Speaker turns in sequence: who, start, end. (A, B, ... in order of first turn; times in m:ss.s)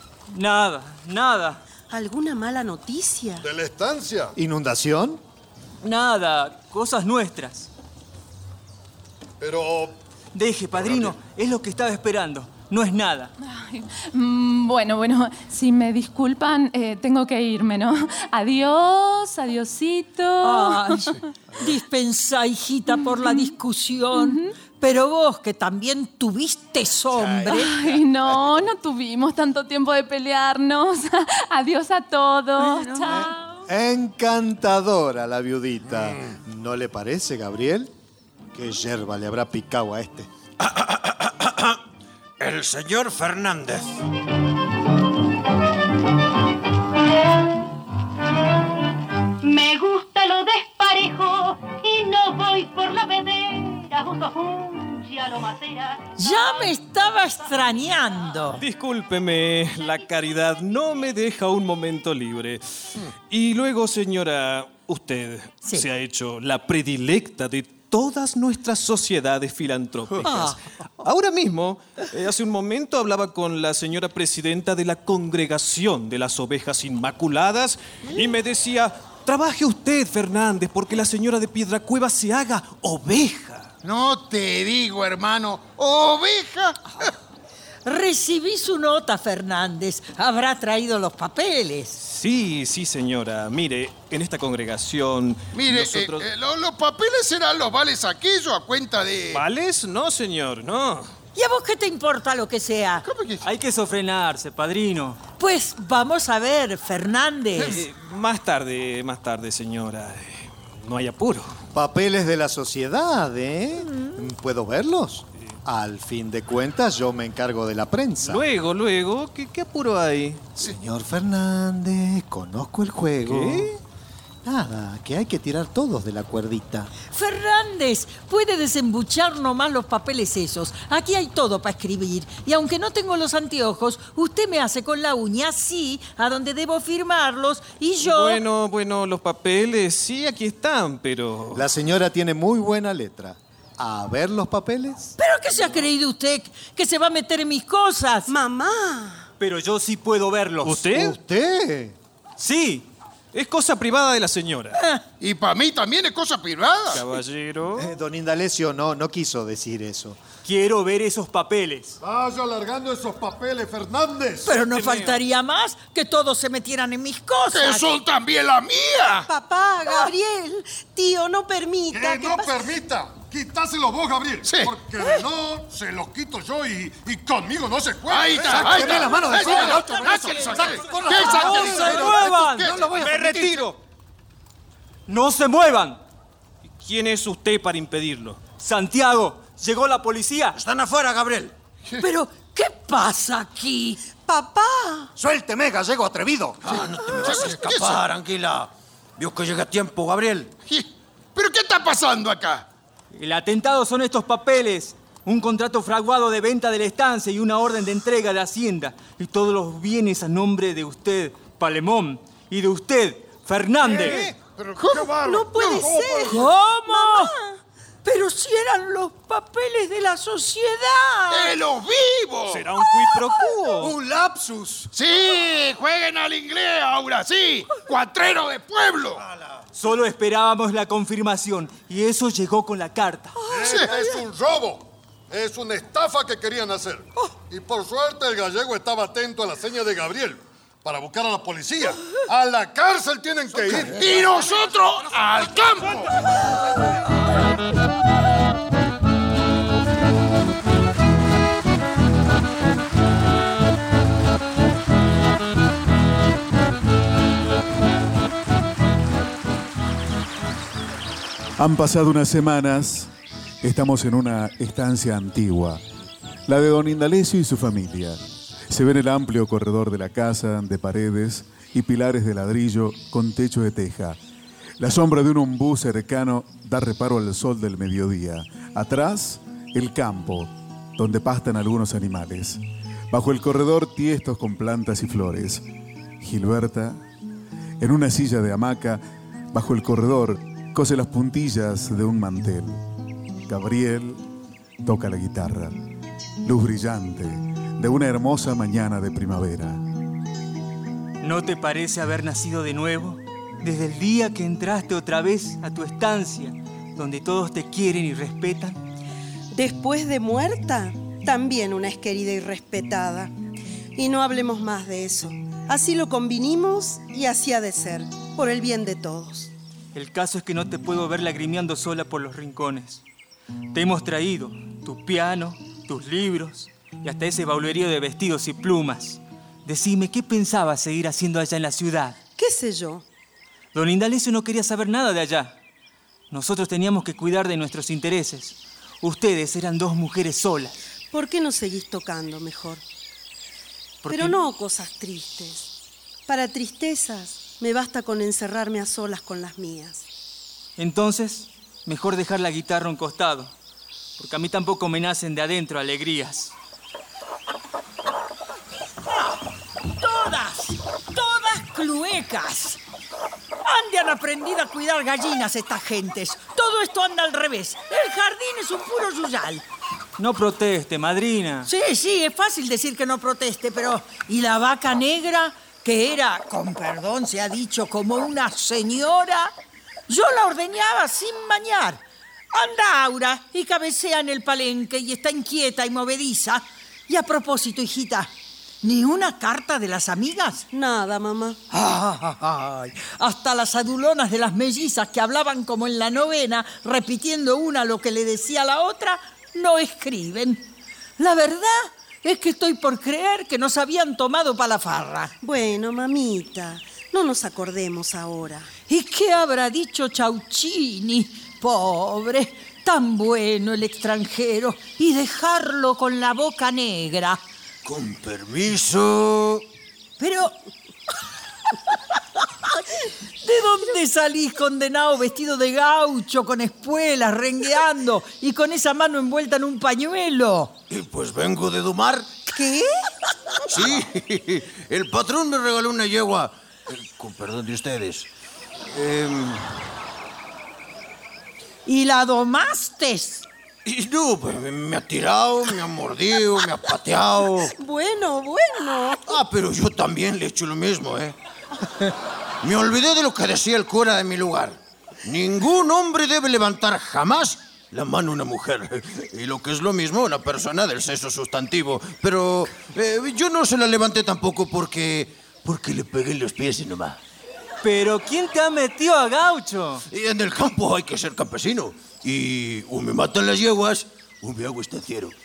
0:00.3-0:01.6 A
0:01.9-0:03.4 B
0:03.4-0:04.3 C
0:04.4-0:05.2 D
0:05.8-0:07.7 A
0:09.4-0:09.9 C
0:10.3-0:13.3 A
0:10.7-0:11.2 C
0:13.4-0:21.3 E
0:20.4-0:27.7 F
0:22.9-0:23.5 E
0:24.1-0:24.5 E
0:27.1-0:28.7 G
0:27.5-0:33.3 E
0:32.6-0:33.6 F
0:33.1-0:37.9 D
0:38.5-0:40.3 D
0:40.6-0:41.8 H
0:42.4-0:44.0 H
0:49.4-0:56.7 I
0:56.2-0:58.6 F
0:58.6-1:02.6 J
1:03.3-1:23.7 J
1:10.2-1:10.6 F
1:23.8-1:27.1 G
1:27.8-1:32.0 F
1:32.0-1:36.3 J
1:35.5-1:39.4 G
1:39.3-1:41.1 J
1:41.3-1:43.0 F
1:43.0-1:43.4 G
1:43.4-1:45.2 A
1:45.4-1:47.8 F
1:47.6-1:51.5 J
1:51.7-1:58.5 D
1:58.2-2:00.4 J
2:00.6-2:03.8 D
2:03.2-2:03.7 J
2:04.4-2:06.9 D
2:07.1-2:18.4 F
2:18.0-2:21.7 J
2:21.5-2:25.2 D
2:25.2-2:28.3 F
2:28.3-2:29.3 B
2:29.4-2:30.8 A
2:30.6-2:31.2 J
2:30.8-2:32.0 D
2:32.4-2:32.9 A
2:33.3-2:34.8 J
2:34.7-2:35.0 F
2:35.2-2:37.0 G
2:36.9-2:37.9 J
2:37.8-2:40.2 D
2:40.4-2:42.0 A
2:42.0-2:44.6 C
2:44.4-2:47.9 F
2:44.6-2:45.2 J
2:47.5-2:49.3 G
2:49.3-2:52.6 B
2:51.9-3:01.9 C
2:54.4-2:54.7 G
2:58.1-3:03.5 G
2:59.0-3:00.1 D
3:01.2-3:03.7 A
3:03.0-3:03.6 J
3:05.1-3:06.0 A
3:06.8-3:08.4 J
3:08.6-3:10.6 A
3:10.5-3:11.5 H
3:12.0-3:14.0 F
3:14.2-3:15.1 B
3:15.2-3:16.6 D
3:16.6-3:20.5 H
3:16.7-3:18.0 G
3:20.6-3:22.6 G
3:23.1-3:34.2 A
3:34.0-3:34.3 J
3:34.6-3:36.0 G
3:34.8-3:37.6 B
3:34.9-3:35.3 C
3:35.8-3:36.2 C
3:36.3-3:37.3 F
3:38.0-3:41.5 F
3:41.3-3:42.7 G
3:42.5-3:43.9 J
3:43.8-3:44.9 D
3:44.9-3:49.2 G
3:49.7-3:53.4 A
3:53.4-4:04.2 C
3:53.6-3:54.0 G
3:53.7-3:54.0 F
4:03.8-4:06.1 G
4:21.6-4:23.1 K
4:23.6-4:25.8 K
4:26.4-4:34.2 K
4:34.8-4:42.6 K
4:43.1-4:45.6 K
4:46.2-4:47.0 K
4:47.8-4:52.8 K
4:53.5-4:54.2 K
4:54.8-4:55.7 K
4:56.4-4:59.8 K
5:01.2-5:08.8 A
5:09.5-5:13.3 B
5:14.0-5:19.5 B
5:19.9-5:23.0 A
5:23.7-5:32.2 A
5:32.4-5:33.0 B
5:33.7-5:35.6 A
5:36.3-5:40.8 A
5:41.1-5:42.8 B
5:44.0-5:44.4 A
5:44.1-5:45.7 B
5:46.3-5:50.0 B
5:50.8-5:53.5 A
5:54.2-5:56.5 A
5:59.9-6:02.8 F
6:03.6-6:09.6 F
6:10.2-6:11.7 A
6:11.6-6:19.5 F
6:20.1-6:22.0 F
6:22.5-6:30.6 F
6:30.7-6:31.6 B
6:31.7-6:45.3 F
6:45.4-6:48.7 B
6:48.9-6:57.4 F
6:57.8-6:59.6 H
7:00.2-7:00.5 F
7:03.4-7:10.7 F
7:10.9-7:12.4 H
7:12.5-7:13.0 B
7:13.7-7:18.3 H
7:18.9-7:19.8 H
7:21.8-7:23.4 F
7:23.8-7:27.7 H
7:27.8-7:29.2 B
7:29.3-7:31.4 H
7:32.0-7:47.2 H
7:47.8-7:50.0 A
7:50.1-7:55.4 H